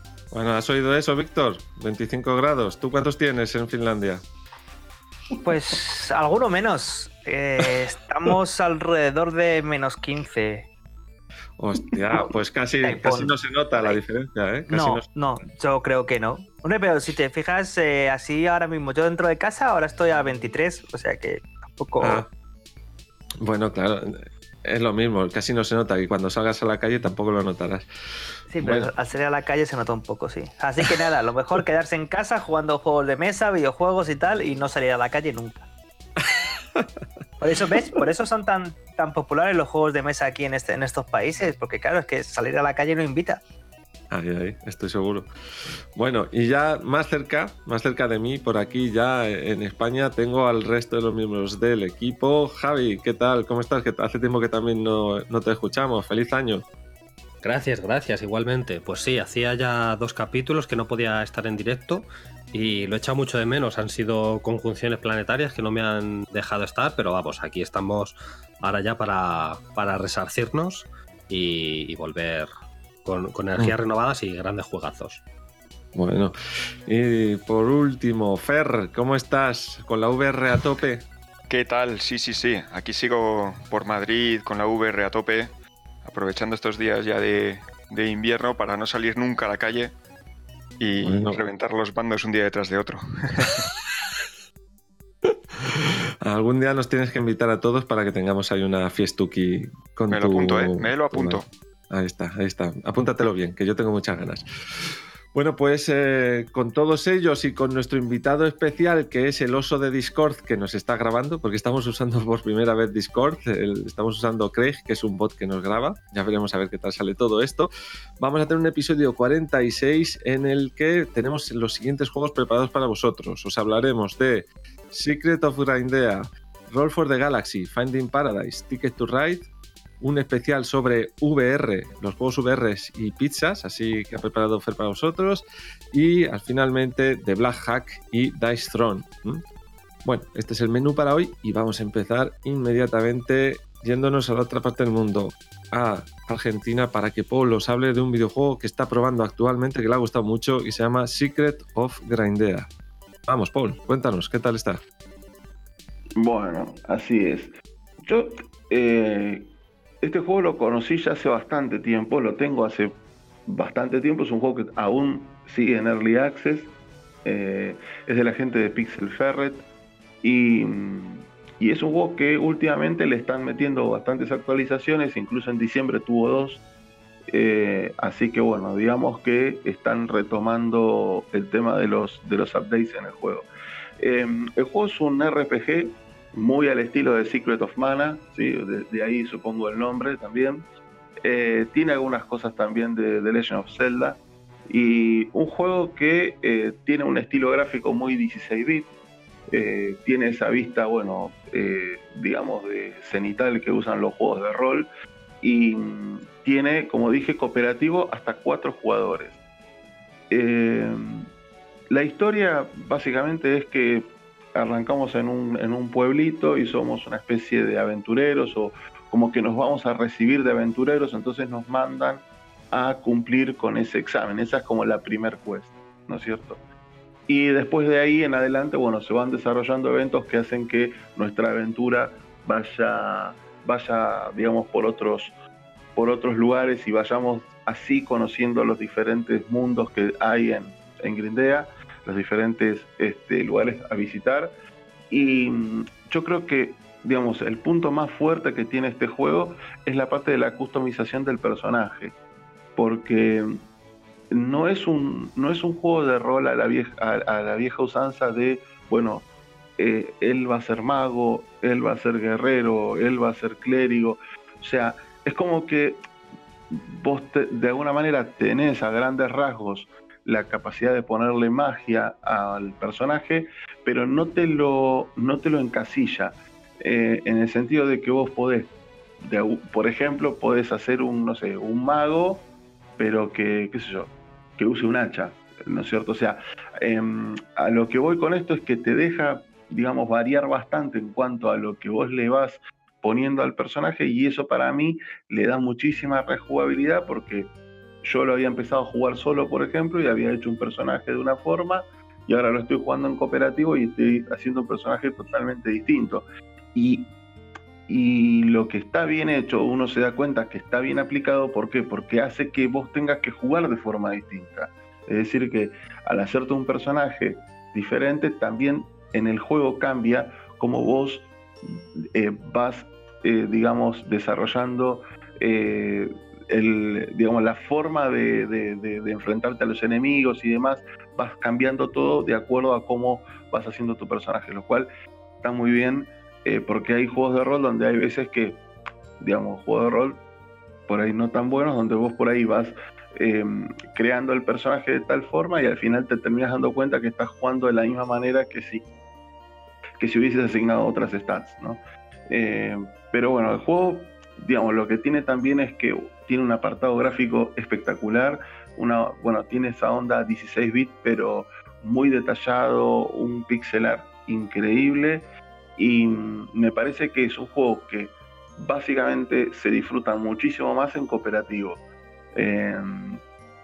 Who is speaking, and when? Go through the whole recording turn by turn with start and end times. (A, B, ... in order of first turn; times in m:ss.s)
0:00.3-0:04.2 A
0:05.4-0:10.7 B
0:11.6-0:15.1 A
0:12.8-0:14.0 B
0:14.7-0:22.2 B
0:22.0-0:22.3 A
0:23.4-0:27.9 A
0:28.5-0:35.7 B
0:28.6-0:28.9 A
0:36.4-0:36.9 A
0:37.4-0:43.4 B
0:44.1-0:45.3 A
0:46.0-0:56.7 A
0:57.4-1:12.5 C
1:13.0-1:15.2 C
1:15.9-1:16.4 A
1:16.9-1:21.1 A
1:21.5-1:25.5 D
1:26.0-1:30.0 D
1:30.8-1:33.6 D
1:31.0-1:31.4 A
1:35.7-2:09.5 A
1:40.1-1:41.5 D
2:10.0-2:19.4 A
2:20.0-2:32.7 A
2:33.3-2:34.8 A
2:36.2-2:37.5 E
2:38.0-2:39.5 E
2:40.0-2:46.7 E
2:47.2-2:49.7 E
2:50.2-2:56.6 E
2:57.3-3:03.5 E
3:04.0-3:10.7 E
3:11.2-3:18.9 E
3:19.5-3:24.9 E
3:25.4-3:29.4 E
3:30.3-3:31.3 E
3:31.9-3:46.6 E
3:47.3-3:55.4 E
3:56.0-4:04.5 E
4:05.1-4:12.2 E
4:12.8-4:13.6 E
4:14.3-4:19.3 E
4:19.8-4:26.0 E
4:26.7-4:42.5 E
4:43.0-4:57.5 E
4:58.0-5:07.1 E
5:07.9-5:34.9 E
5:35.4-5:38.6 E
5:39.2-5:40.2 E
5:40.9-5:48.9 E
5:50.0-6:11.8 E
6:12.4-6:13.2 E